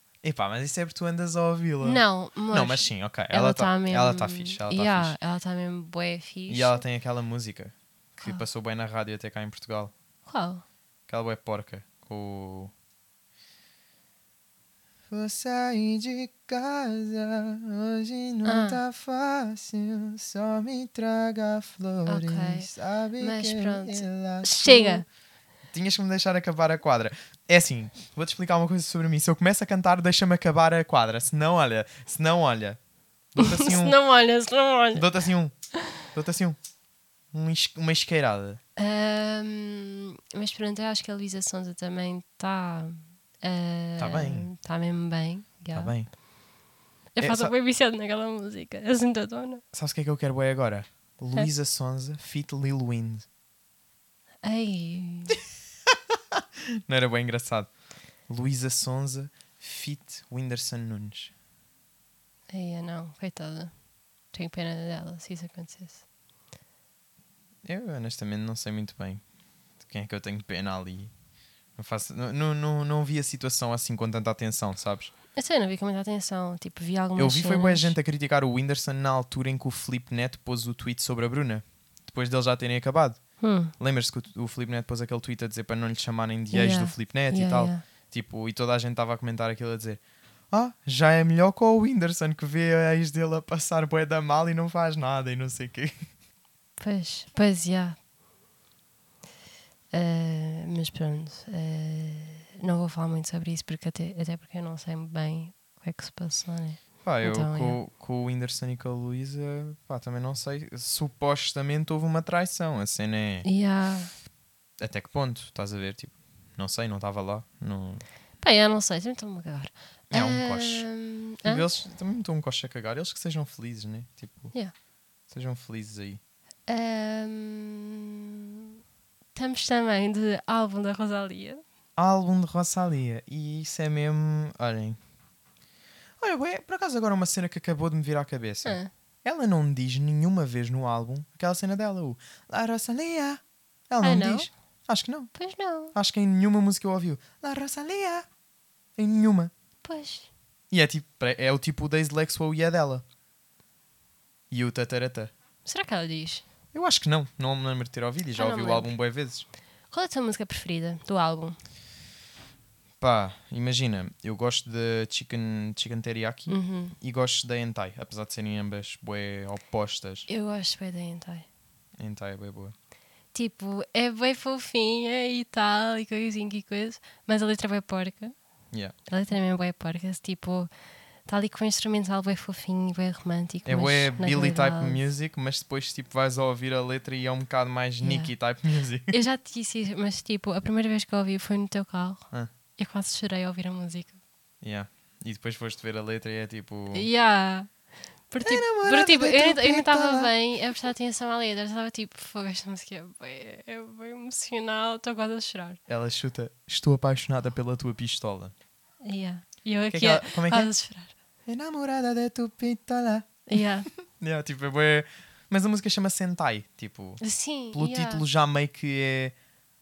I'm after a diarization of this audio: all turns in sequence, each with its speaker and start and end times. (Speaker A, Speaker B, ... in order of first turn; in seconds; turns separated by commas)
Speaker A: 0.2-5.2, Speaker B: 1.8-6.8, Speaker A: 6.5-9.9, Speaker B: 8.2-8.4, Speaker B: 10.2-10.6, Speaker A: 11.1-12.7, Speaker A: 15.1-25.0, Speaker B: 18.4-18.8, Speaker B: 22.1-25.1, Speaker A: 25.7-32.8, Speaker A: 33.3-34.0, Speaker B: 33.4-35.1, Speaker A: 34.9-35.5, Speaker A: 36.0-36.6, Speaker A: 37.3-38.6, Speaker B: 38.8-45.9, Speaker A: 44.0-44.5, Speaker A: 45.7-46.1, Speaker B: 47.1-49.6, Speaker A: 47.2-47.5, Speaker A: 49.7-53.3, Speaker B: 54.4-55.4, Speaker A: 55.9-57.7, Speaker A: 58.3-61.3, Speaker B: 62.5-63.7, Speaker B: 64.3-66.0, Speaker A: 67.6-69.2, Speaker A: 69.8-71.1, Speaker A: 71.8-75.1, Speaker B: 75.3-77.9, Speaker A: 77.2-83.2, Speaker B: 83.4-83.7, Speaker A: 83.8-96.1, Speaker B: 86.5-87.8, Speaker B: 96.8-98.0, Speaker B: 99.9-107.8, Speaker A: 107.0-113.5, Speaker B: 113.4-114.1, Speaker A: 114.8-118.0, Speaker B: 118.4-121.7, Speaker A: 120.1-120.9, Speaker A: 121.4-124.5, Speaker A: 125.3-126.2, Speaker B: 126.7-128.7, Speaker B: 129.3-131.6, Speaker A: 132.0-135.0, Speaker A: 136.2-145.3, Speaker B: 138.6-138.9, Speaker B: 144.0-144.5, Speaker B: 145.3-145.9, Speaker A: 145.9-148.3, Speaker A: 149.0-149.5, Speaker B: 149.8-150.3, Speaker A: 150.7-153.0, Speaker A: 154.5-155.3, Speaker B: 155.6-156.4, Speaker A: 156.7-159.4, Speaker B: 158.3-158.9, Speaker B: 159.9-161.6, Speaker A: 163.0-170.3, Speaker B: 166.5-166.9, Speaker B: 170.3-171.5, Speaker A: 172.0-172.7, Speaker B: 173.3-178.3, Speaker B: 179.1-180.7, Speaker B: 181.3-185.0, Speaker A: 183.6-189.2, Speaker B: 188.0-188.3, Speaker B: 189.1-194.2, Speaker A: 194.6-197.1, Speaker B: 196.9-197.7, Speaker B: 198.3-205.8, Speaker A: 198.4-200.3, Speaker A: 205.9-208.5, Speaker B: 209.0-211.1, Speaker A: 209.9-210.7, Speaker A: 211.4-217.2, Speaker B: 213.5-213.9, Speaker B: 217.2-218.2, Speaker A: 217.7-219.3